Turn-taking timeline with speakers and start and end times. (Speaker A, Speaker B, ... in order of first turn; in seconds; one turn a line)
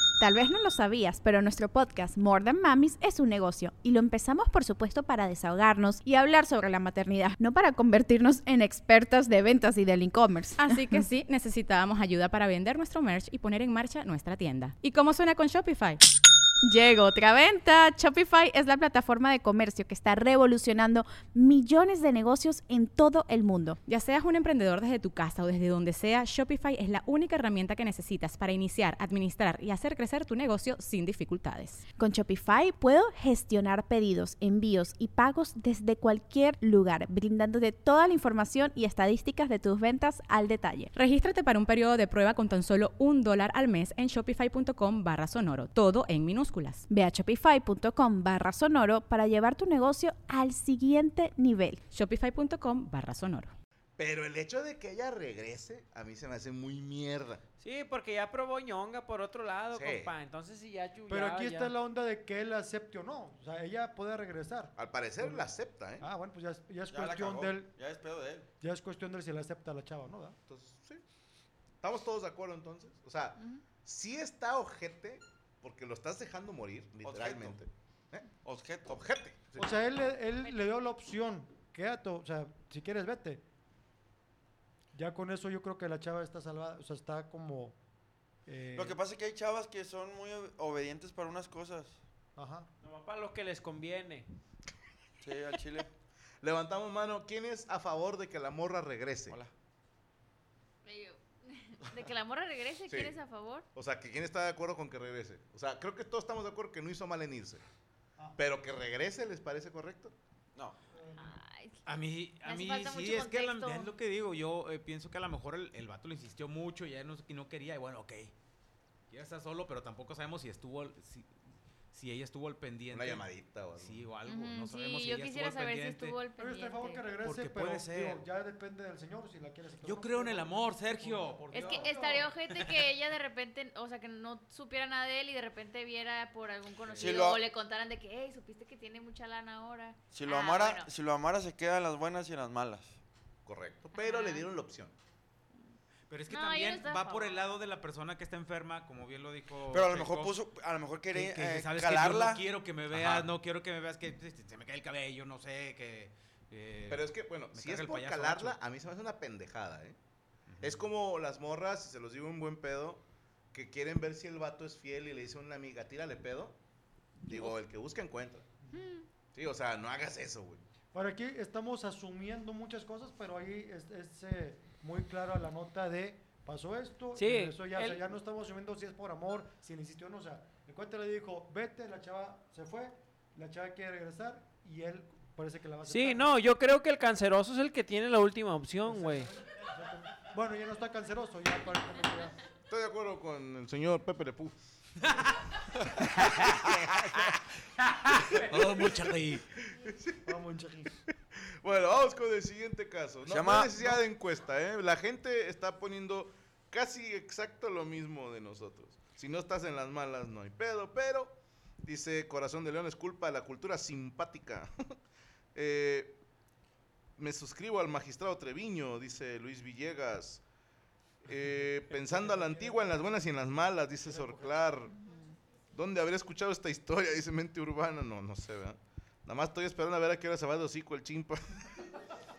Speaker A: 0.2-11.1
Speaker B: 10.6-16.0
Speaker A: 16.6-23.8
Speaker B: 23.9-31.8
Speaker A: 32.0-40.9
Speaker B: 40.9-46.9
Speaker A: 46.9-51.8
Speaker B: 51.9-53.5
Speaker C: 54.0-57.4
Speaker D: 57.6-61.7
Speaker C: 59.7-60.1
Speaker E: 61.1-65.5
Speaker C: 64.8-66.0
Speaker E: 66.0-67.7
Speaker F: 66.9-68.5
Speaker E: 68.6-70.4
Speaker C: 70.5-71.0
Speaker C: 71.8-78.3
Speaker F: 77.0-77.6
Speaker F: 78.5-79.0
Speaker C: 78.9-79.8
Speaker E: 79.6-83.4
Speaker E: 84.9-87.8
Speaker E: 88.5-89.0
Speaker F: 88.7-92.0
Speaker E: 92.4-92.7
Speaker D: 92.8-94.3
Speaker F: 95.2-95.9
Speaker C: 96.4-99.4
Speaker G: 100.8-103.7
Speaker C: 102.9-103.2
Speaker C: 103.8-107.6
Speaker C: 108.4-110.2
Speaker E: 110.9-111.4
Speaker G: 111.2-111.8
Speaker H: 111.9-118.3
Speaker G: 112.4-113.9
Speaker H: 119.1-121.3
Speaker H: 121.9-126.2
Speaker C: 122.9-124.0
Speaker G: 124.3-127.0
Speaker E: 126.4-132.3
Speaker H: 127.3-128.2
Speaker H: 129.8-132.8
Speaker G: 131.5-140.9
Speaker F: 137.0-137.4
Speaker F: 140.1-143.0
Speaker C: 143.5-144.9
Speaker G: 143.9-144.5
Speaker H: 146.1-150.3
Speaker G: 146.3-147.5
Speaker F: 149.7-152.4
Speaker H: 151.1-158.6
Speaker C: 152.9-153.3
Speaker C: 156.9-160.0
Speaker H: 160.5-160.8
Speaker C: 160.6-166.6
Speaker C: 167.3-168.4
Speaker G: 168.7-169.1
Speaker C: 169.3-170.6
Speaker E: 170.9-186.3
Speaker D: 177.2-178.0
Speaker D: 185.9-189.3
Speaker E: 188.8-192.4
Speaker C: 192.7-195.4
Speaker D: 196.1-196.9
Speaker C: 196.4-196.8
Speaker D: 198.0-198.4
Speaker H: 198.1-199.4
Speaker C: 198.4-200.2
Speaker E: 200.2-200.9
Speaker C: 201.4-214.7
Speaker F: 203.2-204.0
Speaker C: 215.6-216.2
Speaker C: 217.2-220.4
Speaker C: 221.2-225.0
Speaker G: 225.0-225.4
Speaker C: 225.7-231.4